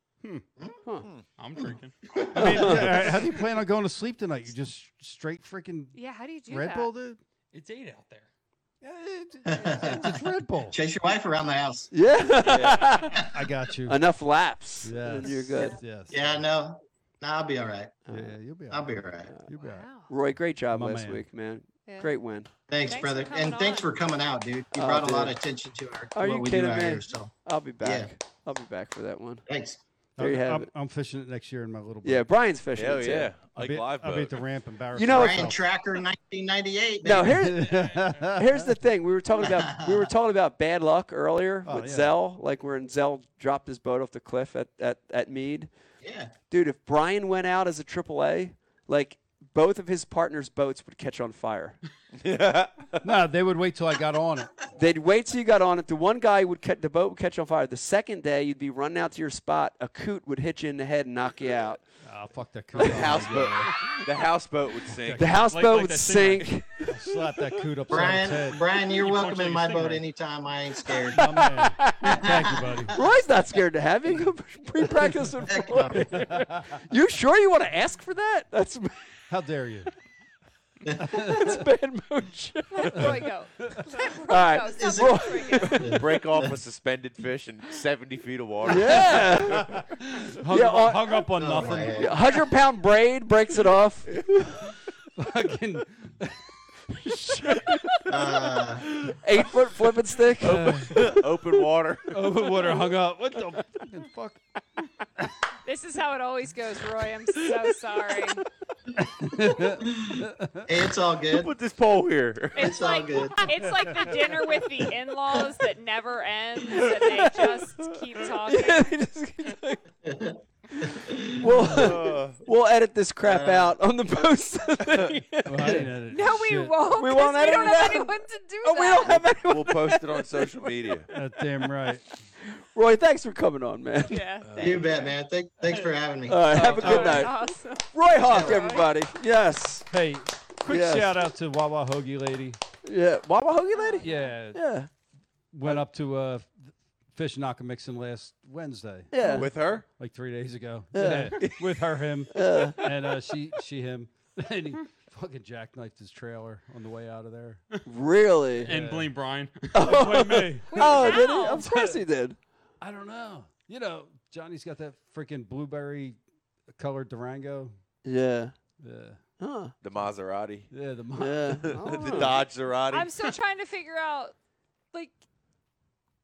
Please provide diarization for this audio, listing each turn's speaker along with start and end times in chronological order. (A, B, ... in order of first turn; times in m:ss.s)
0:01.4-0:02.1 A
0:01.6-0:03.2 B
0:02.3-0:06.0 C
0:02.4-0:03.0 D
0:05.9-0:06.9 E
0:06.5-0:07.2 C
0:07.5-0:08.3 A
0:08.8-0:10.8 C
0:09.4-0:11.9 B
0:11.9-0:13.2 D
0:12.4-0:12.9 F
0:13.1-0:13.5 B
0:13.3-0:14.0 C
0:13.8-0:15.8 D
0:14.8-0:16.4 C
0:15.5-0:15.8 E
0:16.1-0:18.0 B
0:18.0-0:18.3 D
0:18.1-0:19.9 C
0:18.7-0:19.3 B
0:19.6-0:20.1 E
0:20.1-0:22.5 D
0:20.7-0:21.2 C
0:21.8-0:22.1 E
0:22.7-0:28.1 B
0:22.8-0:23.9 E
0:24.7-0:25.4 D
0:26.1-0:29.4 D
0:29.5-0:29.8 B
0:30.2-0:32.2 C
0:30.2-0:30.7 D
0:32.0-0:33.3 D
0:32.8-0:34.5 F
0:33.5-0:35.6 C
0:34.9-0:35.5 D
0:35.1-0:37.5 B
0:37.0-0:45.7 D
0:37.3-0:38.8 C
0:37.7-0:38.2 A
0:39.4-0:40.1 B
0:41.6-0:42.2 C
0:46.0-0:46.3 B
0:46.5-0:51.8 D
0:52.1-0:53.1 F
0:53.0-0:54.5 C
0:54.7-1:01.8 D
1:02.0-1:04.0 C
1:02.8-1:05.4 F
1:04.9-1:05.4 C
1:05.2-1:07.0 D
1:05.4-1:06.5 A
1:06.8-1:08.7 C
1:07.9-1:13.0 B
1:08.9-1:10.0 A
1:11.1-1:12.9 C
1:11.2-1:12.3 D
1:12.9-1:18.9 D
1:15.4-1:16.3 B
1:16.1-1:16.7 C
1:19.3-1:19.9 C
1:21.0-1:21.6 C
1:21.0-1:23.2 D
1:22.7-1:26.0 E
1:24.3-1:26.0 D
1:24.8-1:26.6 B
1:25.8-1:29.8 F
1:28.6-1:29.7 D
1:28.8-1:32.4 C
1:30.5-1:34.6 D
1:31.4-1:32.2 B
1:35.2-1:36.4 C
1:36.9-1:38.6 D
1:38.1-1:38.9 B
1:39.1-1:41.1 D
1:40.4-1:41.2 C
1:40.4-1:42.7 F
1:42.1-1:44.4 C
1:45.6-1:48.4 E
1:49.0-1:50.7 C
1:49.5-1:51.5 B
1:51.3-1:52.8 F
1:52.6-1:59.0 E
1:52.6-1:53.6 B
1:57.0-1:59.8 D
2:00.0-2:01.8 B
2:01.3-2:05.9 D
2:01.7-2:02.4 F
2:03.2-2:03.8 B
2:05.4-2:06.8 C
2:06.1-2:09.2 E
2:06.9-2:10.4 D
2:09.1-2:11.1 F
2:11.1-2:12.0 C
2:12.4-2:14.2 D
2:14.0-2:14.8 E
2:14.4-2:14.8 F
2:14.6-2:17.2 B
2:16.3-2:19.9 D
2:16.5-2:18.9 E
2:18.2-2:18.6 B
2:19.9-2:22.6 C
2:20.7-2:21.2 D
2:22.8-2:24.9 D
2:23.7-2:24.4 E
2:24.0-2:24.6 C
2:25.5-2:29.1 C
2:29.1-2:29.5 D
2:29.3-2:29.8 F
2:29.9-2:37.6 C
2:30.9-2:31.6 D
2:32.3-2:32.9 D
2:37.8-2:38.7 D
2:38.6-2:40.5 A
2:38.7-2:39.1 C
2:39.7-2:42.4 D
2:39.8-2:42.0 C
2:40.7-2:41.7 E
2:42.8-2:46.2 C
2:46.7-2:47.7 C
2:48.0-2:48.5 D
2:48.8-2:49.2 C
2:49.4-2:49.7 D
2:49.8-2:50.7 F
2:50.7-2:52.3 C
2:51.2-2:52.4 D
2:51.6-2:53.1 F
2:52.9-2:54.3 E